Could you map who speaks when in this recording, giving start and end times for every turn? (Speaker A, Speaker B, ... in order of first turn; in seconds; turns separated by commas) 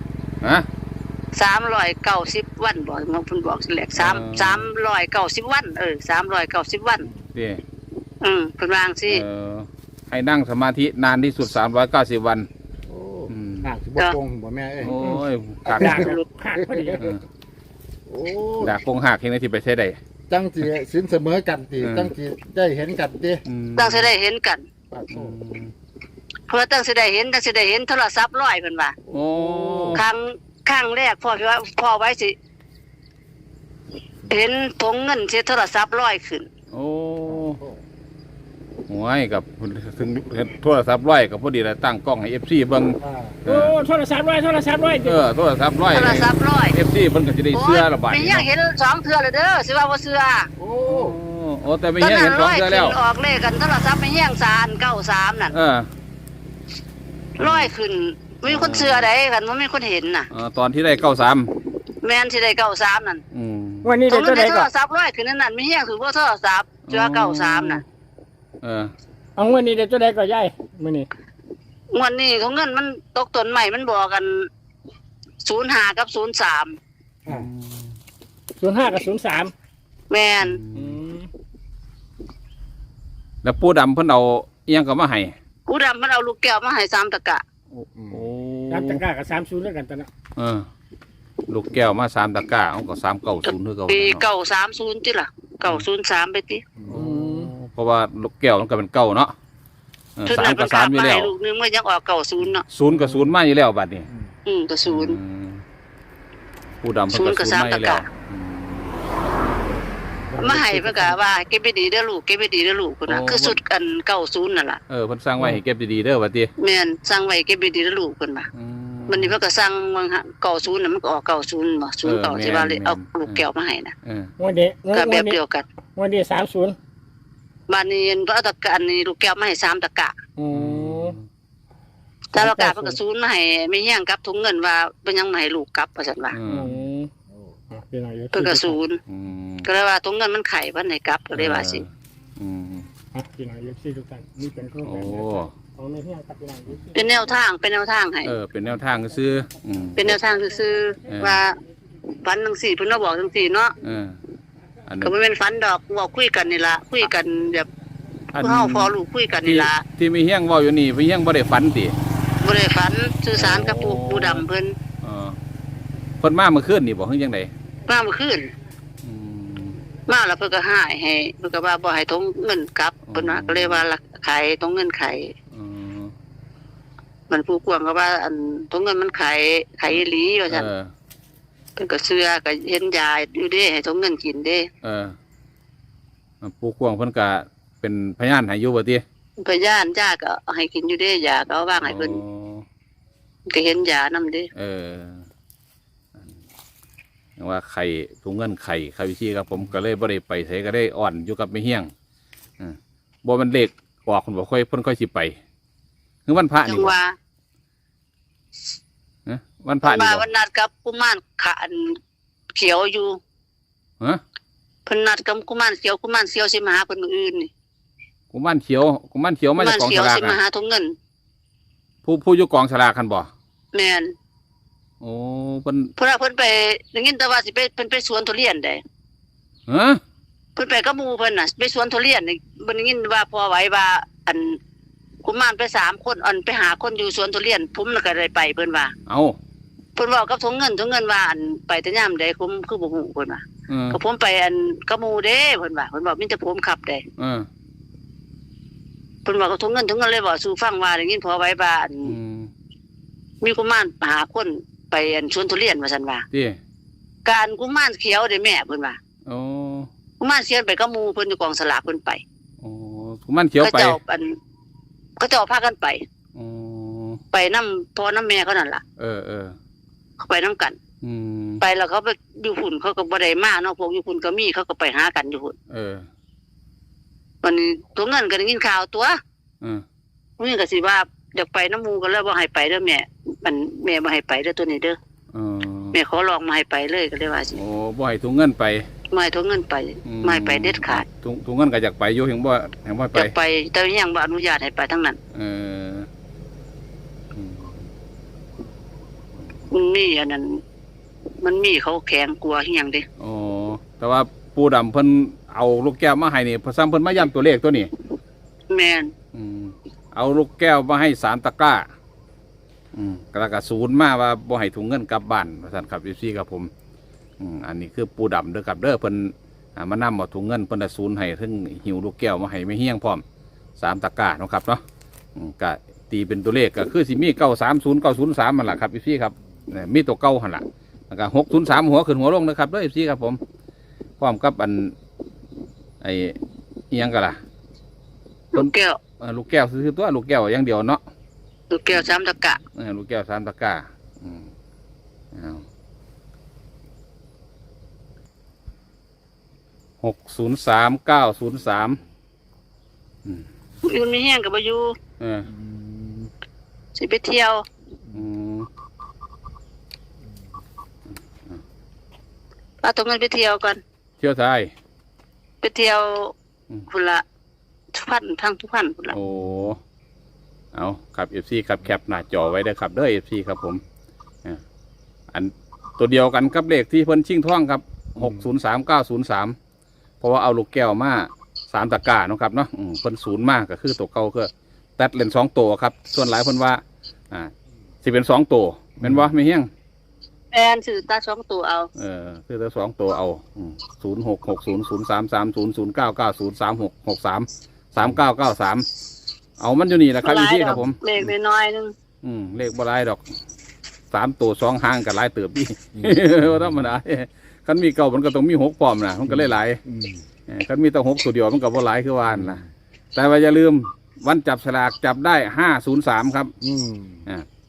Speaker A: 0.4-0.7, Speaker B: 1.3-7.1, Speaker A: 4.0-4.7, Speaker A: 7.3-7.6, Speaker B: 8.2-9.2, Speaker A: 9.1-12.5, Speaker C: 12.9-14.9, Speaker A: 13.3-13.7, Speaker A: 14.8-16.1, Speaker D: 14.9-15.2, Speaker C: 15.7-17.0, Speaker D: 15.8-17.1, Speaker B: 15.8-16.2, Speaker A: 17.0-17.2, Speaker C: 18.1-18.7, Speaker A: 18.6-20.0, Speaker C: 20.3-23.4, Speaker A: 21.8-22.1, Speaker A: 23.4-24.1, Speaker B: 23.8-24.6, Speaker C: 24.9-25.3, Speaker A: 25.1-25.7, Speaker B: 26.5-28.9, Speaker A: 29.1-30.0, Speaker C: 29.1-30.0, Speaker B: 29.9-32.4, Speaker B: 34.3-36.5, Speaker A: 36.7-37.6, Speaker A: 38.9-43.8, Speaker C: 43.0-43.4, Speaker D: 43.4-45.2, Speaker A: 45.0-48.5, Speaker B: 45.9-46.8, Speaker B: 47.5-50.5, Speaker C: 50.6-51.1, Speaker A: 50.8-53.0, Speaker B: 52.0-55.5, Speaker A: 55.5-55.9, Speaker B: 57.4-60.3, Speaker A: 57.4-57.7, Speaker A: 58.5-59.1, Speaker A: 60.3-61.5, Speaker B: 62.0-63.2, Speaker A: 63.3-64.0, Speaker D: 63.8-64.7, Speaker B: 64.1-67.8, Speaker A: 66.8-67.8, Speaker A: 68.6-68.9, Speaker D: 69.4-71.1, Speaker B: 71.9-74.5, Speaker B: 75.4-76.8, Speaker A: 77.2-78.0, Speaker D: 78.6-79.5, Speaker B: 80.1-80.6, Speaker A: 80.4-81.0, Speaker D: 80.7-81.3, Speaker A: 83.4-85.3, Speaker B: 85.7-87.4, Speaker A: 87.7-89.0, Speaker D: 88.7-90.1, Speaker A: 90.3-90.7, Speaker A: 91.5-94.2, Speaker B: 93.5-96.6, Speaker C: 96.8-97.0, Speaker A: 96.8-99.3, Speaker D: 96.9-97.5, Speaker A: 100.2-101.3, Speaker B: 100.2-102.6, Speaker A: 102.7-104.1, Speaker B: 104.5-105.2, Speaker A: 104.8-105.6, Speaker A: 106.8-109.0, Speaker B: 107.1-108.0, Speaker D: 110.3-111.1, Speaker B: 110.4-114.8, Speaker A: 113.1-113.6, Speaker A: 114.9-116.5, Speaker B: 116.6-118.5, Speaker A: 118.5-119.3, Speaker B: 119.1-123.9, Speaker A: 122.0-123.4, Speaker A: 124.0-124.3, Speaker D: 124.4-125.4, Speaker B: 124.9-125.6, Speaker D: 126.0-126.8, Speaker B: 127.7-130.2, Speaker D: 130.4-131.2, Speaker A: 130.5-131.3, Speaker D: 132.3-133.0, Speaker B: 132.3-136.4, Speaker A: 136.3-136.8, Speaker D: 136.4-137.1, Speaker D: 137.7-138.8, Speaker B: 138.3-139.0, Speaker A: 139.1-139.7, Speaker B: 139.6-141.8, Speaker A: 141.3-142.9, Speaker D: 143.1-146.9, Speaker A: 144.8-145.5, Speaker B: 146.9-148.3, Speaker A: 148.2-150.2, Speaker B: 149.9-151.6, Speaker A: 151.1-151.4, Speaker B: 152.1-153.7, Speaker A: 153.8-154.2, Speaker A: 154.8-155.1, Speaker B: 155.0-157.7, Speaker A: 158.3-161.9, Speaker B: 158.4-159.8, Speaker B: 162.4-164.8, Speaker A: 163.3-164.4, Speaker A: 165.0-165.4, Speaker A: 166.2-167.5, Speaker B: 167.8-168.5, Speaker A: 169.0-169.8, Speaker B: 170.1-175.3, Speaker A: 173.0-173.9, Speaker A: 175.5-176.1, Speaker B: 177.3-180.7, Speaker A: 179.9-180.9, Speaker B: 181.8-184.7, Speaker A: 184.8-185.2, Speaker A: 186.4-189.0, Speaker B: 189.4-192.2, Speaker A: 191.8-192.7, Speaker B: 193.5-194.5, Speaker A: 194.5-195.2, Speaker A: 197.4-201.9, Speaker A: 202.6-205.3, Speaker A: 206.2-206.9, Speaker B: 206.7-207.1, Speaker A: 209.2-210.2, Speaker B: 209.8-212.0, Speaker B: 212.5-213.2, Speaker B: 214.8-217.5, Speaker A: 218.3-220.4, Speaker B: 219.6-220.9, Speaker A: 222.0-223.3, Speaker B: 223.7-224.1, Speaker A: 225.0-225.9, Speaker B: 226.0-228.8, Speaker A: 229.7-230.0, Speaker B: 230.6-234.6, Speaker B: 235.2-238.9, Speaker A: 239.1-239.4, Speaker B: 239.9-247.0, Speaker A: 243.7-244.0, Speaker A: 247.2-247.5, Speaker B: 249.2-252.1, Speaker A: 252.0-252.5, Speaker B: 253.4-256.2, Speaker A: 256.3-256.6, Speaker B: 257.2-259.0, Speaker A: 259.2-259.9, Speaker B: 260.2-262.2, Speaker A: 262.6-264.0, Speaker B: 263.6-264.4, Speaker B: 265.2-266.0, Speaker A: 266.3-267.2, Speaker B: 267.3-268.8, Speaker A: 269.0-269.5, Speaker B: 270.2-270.8, Speaker A: 271.0-271.6, Speaker B: 271.6-275.6, Speaker A: 275.7-276.1, Speaker B: 277.4-279.2, Speaker B: 280.4-285.0, Speaker A: 285.3-286.0, Speaker B: 285.9-287.6, Speaker A: 287.5-288.9, Speaker B: 289.1-291.0, Speaker A: 290.0-293.3, Speaker B: 293.1-295.2, Speaker A: 295.3-296.1, Speaker A: 297.3-297.8, Speaker B: 299.7-300.6, Speaker B: 301.4-303.1, Speaker A: 303.2-307.9, Speaker B: 308.7-309.1, Speaker A: 309.3-311.9, Speaker A: 312.9-316.7, Speaker A: 317.4-323.2, Speaker A: 323.8-324.8, Speaker A: 325.4-333.4, Speaker A: 334.2-334.9, Speaker A: 336.0-336.4, Speaker A: 336.9-337.4, Speaker B: 338.5-339.0, Speaker A: 338.5-341.0, Speaker B: 341.7-342.6, Speaker A: 342.7-344.5, Speaker A: 345.3-345.6, Speaker A: 350.0-352.0, Speaker B: 353.8-355.0, Speaker A: 355.2-355.5, Speaker C: 355.7-356.3, Speaker B: 356.9-357.6, Speaker A: 358.1-358.7, Speaker B: 362.8-363.8, Speaker A: 364.2-364.7, Speaker B: 365.6-366.3, Speaker B: 366.9-367.2, Speaker B: 367.9-369.2, Speaker A: 369.1-369.8, Speaker A: 370.7-373.8, Speaker A: 375.3-379.6, Speaker A: 380.2-386.8, Speaker A: 388.0-389.7, Speaker B: 390.5-391.9, Speaker A: 391.9-398.8, Speaker A: 399.6-401.0, Speaker B: 400.2-401.9, Speaker A: 402.2-403.2, Speaker A: 404.1-409.8, Speaker C: 409.9-410.2, Speaker A: 410.5-412.6, Speaker A: 413.1-416.5, Speaker C: 416.6-417.2